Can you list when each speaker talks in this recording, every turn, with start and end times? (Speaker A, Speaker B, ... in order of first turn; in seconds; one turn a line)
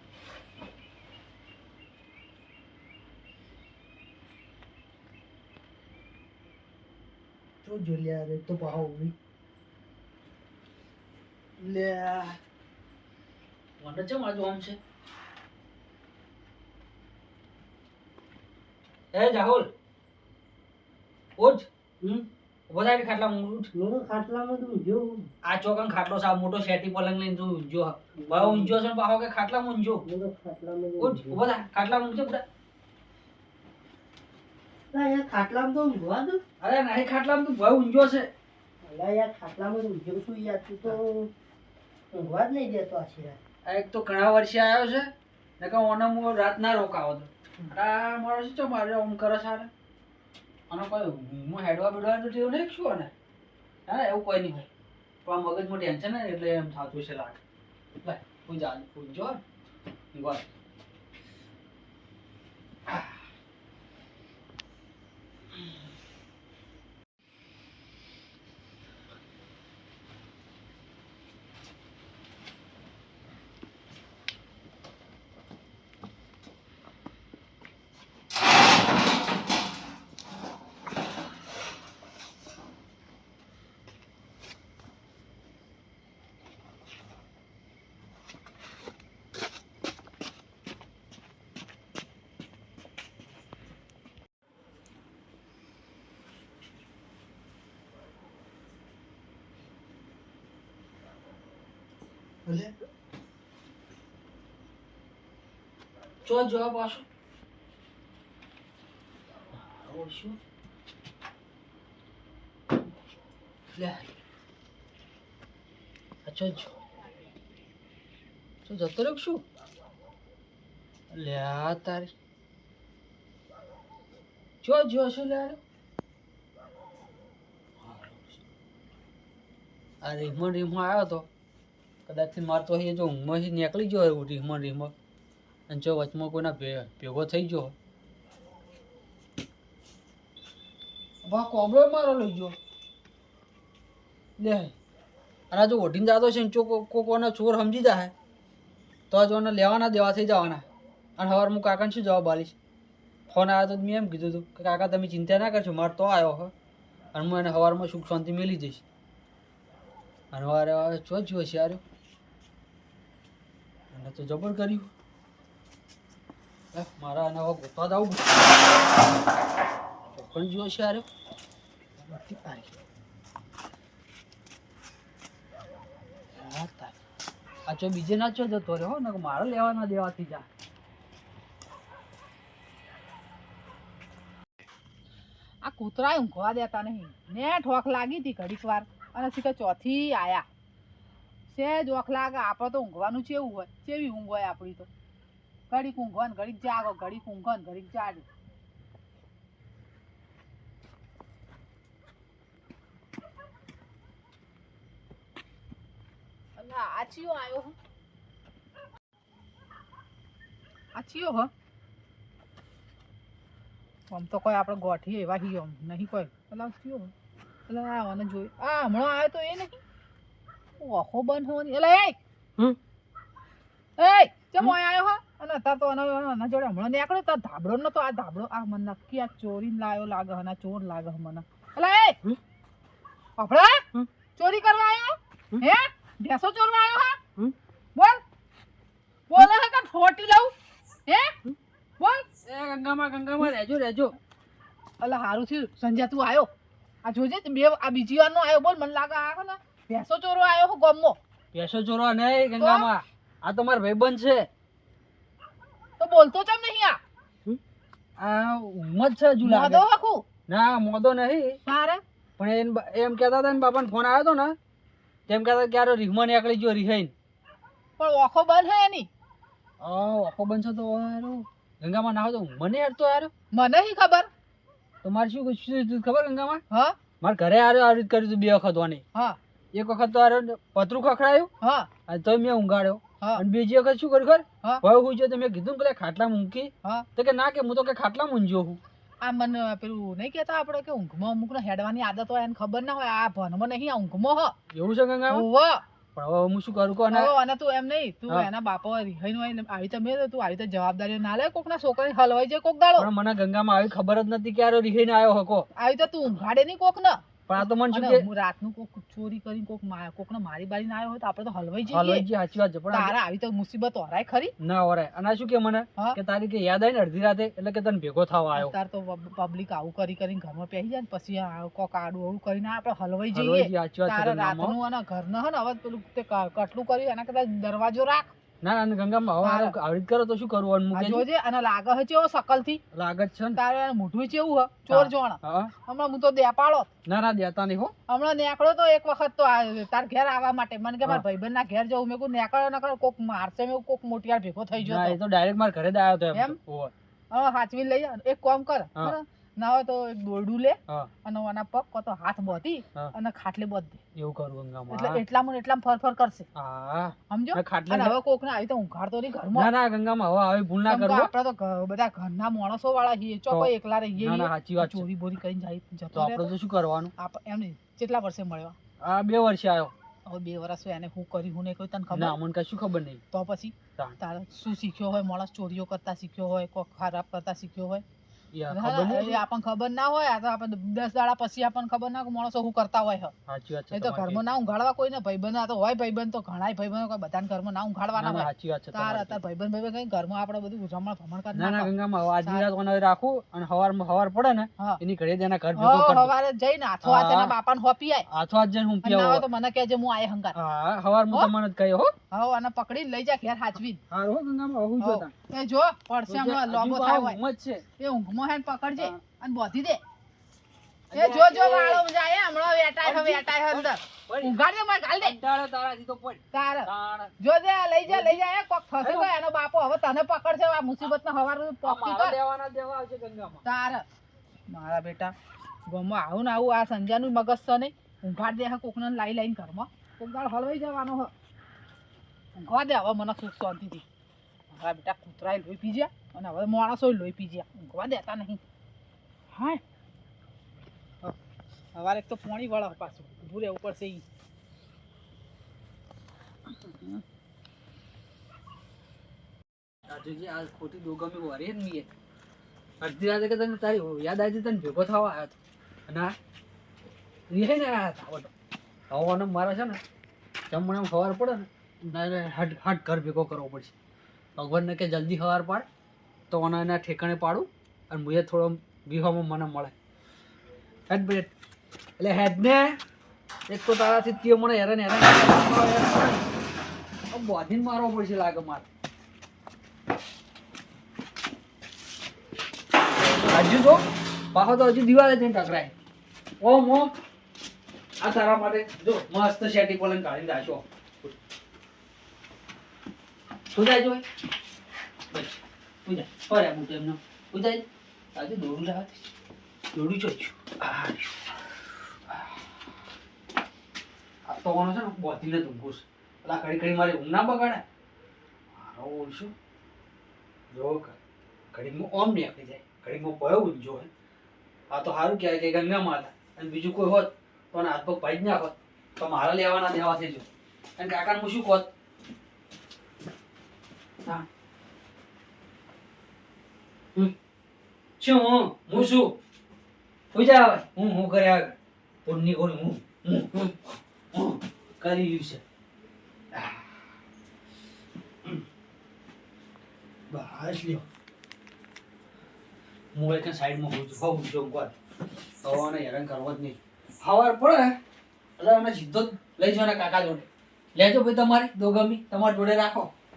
Speaker A: 7.6-9.1
Speaker A: 11.6-12.3
Speaker B: 13.8-14.8
Speaker B: 19.1-19.7
Speaker B: 21.4-23.7
Speaker A: 23.7-25.3
Speaker B: 25.4-30.0
Speaker A: 28.2-28.8
Speaker A: 30.0-31.4
Speaker B: 31.0-32.4
Speaker A: 34.9-36.4
Speaker B: 36.6-38.3
Speaker A: 38.8-41.3
Speaker A: 42.1-43.4
Speaker B: 43.6-49.7
Speaker B: 50.7-53.1
Speaker B: 53.9-54.7
Speaker B: 55.2-57.4
Speaker B: 58.0-59.4
Speaker B: 60.1-60.4
Speaker B: 106.2-107.0
Speaker B: 109.5-110.4
Speaker B: 113.7-114.0
Speaker B: 116.2-116.7
Speaker B: 118.7-119.4
Speaker B: 121.1-122.1
Speaker B: 124.6-125.6
Speaker B: 127.8-128.3
Speaker B: 130.0-131.2
Speaker B: 132.1-134.9
Speaker B: 135.7-137.7
Speaker B: 141.2-142.5
Speaker B: 144.4-144.7
Speaker B: 145.5-148.1
Speaker B: 149.1-150.6
Speaker B: 151.2-152.5
Speaker B: 153.3-156.5
Speaker B: 157.1-158.8
Speaker B: 160.3-161.8
Speaker B: 163.9-164.9
Speaker B: 166.7-168.7
Speaker B: 170.1-171.1
Speaker B: 172.0-172.8
Speaker B: 176.3-176.9
Speaker B: 177.7-180.4
Speaker C: 185.6-190.4
Speaker C: 191.5-194.9
Speaker C: 195.7-198.2
Speaker C: 206.6-207.8
Speaker C: 210.9-211.5
Speaker C: 214.1-217.1
Speaker C: 217.7-219.8
Speaker C: 220.8-222.2
Speaker C: 224.0-232.2
Speaker C: 233.4-233.8
Speaker C: 234.4-237.2
Speaker C: 237.9-238.2
Speaker C: 239.3-240.5
Speaker C: 241.1-241.4
Speaker C: 242.0-242.2
Speaker B: 242.4-244.1
Speaker C: 245.0-246.5
Speaker C: 247.0-251.2
Speaker B: 251.5-254.5
Speaker C: 252.6-252.9
Speaker C: 256.0-257.0
Speaker B: 258.2-259.8
Speaker C: 259.4-260.2
Speaker B: 260.5-261.6
Speaker C: 261.6-262.0
Speaker B: 262.4-264.5
Speaker B: 265.3-267.1
Speaker C: 268.0-269.1
Speaker B: 269.8-273.3
Speaker C: 273.5-274.3
Speaker B: 275.0-276.6
Speaker C: 276.7-277.0
Speaker B: 277.2-279.0
Speaker B: 279.7-281.5
Speaker C: 281.6-281.9
Speaker B: 282.1-288.8
Speaker C: 289.2-294.5
Speaker B: 294.7-295.4
Speaker C: 295.3-295.8
Speaker B: 296.1-297.3
Speaker C: 297.1-303.1
Speaker B: 303.0-305.7
Speaker C: 305.8-312.2
Speaker B: 307.5-308.2
Speaker B: 311.9-313.1
Speaker C: 312.9-314.5
Speaker B: 314.6-318.7
Speaker C: 318.5-328.3
Speaker B: 323.3-324.8
Speaker B: 328.6-331.2
Speaker C: 329.4-329.7
Speaker C: 330.9-332.8
Speaker B: 332.9-333.6
Speaker C: 333.6-336.9
Speaker B: 334.9-335.7
Speaker B: 337.1-337.9
Speaker C: 338.1-345.2
Speaker B: 344.8-346.9
Speaker C: 347.3-354.0
Speaker B: 354.1-355.2
Speaker C: 354.9-356.5
Speaker B: 356.6-358.1
Speaker C: 357.3-359.7
Speaker B: 359.5-361.3
Speaker C: 360.9-366.5
Speaker B: 363.5-365.1
Speaker B: 366.1-367.1
Speaker C: 367.2-368.8
Speaker B: 369.0-369.9
Speaker C: 370.2-372.4
Speaker B: 372.1-373.2
Speaker C: 373.3-378.0
Speaker B: 378.5-379.4
Speaker C: 378.7-383.3
Speaker B: 383.5-384.4
Speaker C: 383.9-391.9
Speaker B: 388.1-389.4
Speaker B: 391.5-396.3
Speaker C: 395.7-398.2
Speaker B: 397.0-397.5
Speaker B: 398.3-399.4
Speaker C: 399.0-400.6
Speaker B: 400.5-402.1
Speaker C: 402.3-404.0
Speaker B: 404.1-405.3
Speaker C: 405.0-407.4
Speaker B: 406.3-407.8
Speaker C: 408.0-410.0
Speaker B: 411.1-412.0
Speaker C: 411.1-415.4
Speaker B: 413.0-414.5
Speaker B: 415.2-417.3
Speaker C: 416.5-416.9
Speaker C: 417.4-422.4
Speaker B: 418.1-418.4
Speaker B: 419.0-419.3
Speaker B: 421.8-423.6
Speaker C: 423.6-424.0
Speaker C: 424.7-425.3
Speaker C: 425.9-431.3
Speaker C: 432.5-434.0
Speaker C: 434.7-438.6
Speaker C: 439.5-439.8
Speaker C: 441.9-444.2
Speaker B: 450.1-452.1
Speaker B: 453.0-455.5
Speaker B: 456.1-456.3
Speaker B: 457.5-458.5
Speaker B: 459.1-460.0
Speaker B: 460.7-463.9
Speaker B: 464.6-465.8
Speaker B: 466.5-469.9
Speaker B: 471.1-471.5
Speaker B: 472.2-473.0
Speaker B: 473.7-476.4
Speaker B: 477.3-478.9
Speaker B: 483.5-484.0
Speaker B: 484.5-485.9
Speaker B: 486.6-487.1
Speaker B: 488.2-491.3
Speaker B: 493.7-494.2
Speaker B: 495.3-497.8
Speaker B: 498.3-499.2
Speaker B: 499.9-501.3
Speaker B: 502.3-502.6
Speaker B: 504.4-507.8
Speaker B: 508.7-509.5
Speaker B: 510.7-511.1
Speaker B: 511.7-514.1
Speaker B: 514.9-520.5
Speaker B: 521.0-521.9
Speaker B: 528.2-529.3
Speaker B: 530.3-533.7
Speaker B: 534.3-535.6
Speaker B: 536.5-536.8
Speaker B: 540.3-541.0
Speaker B: 543.1-544.9
Speaker B: 545.6-548.0
Speaker B: 548.6-553.1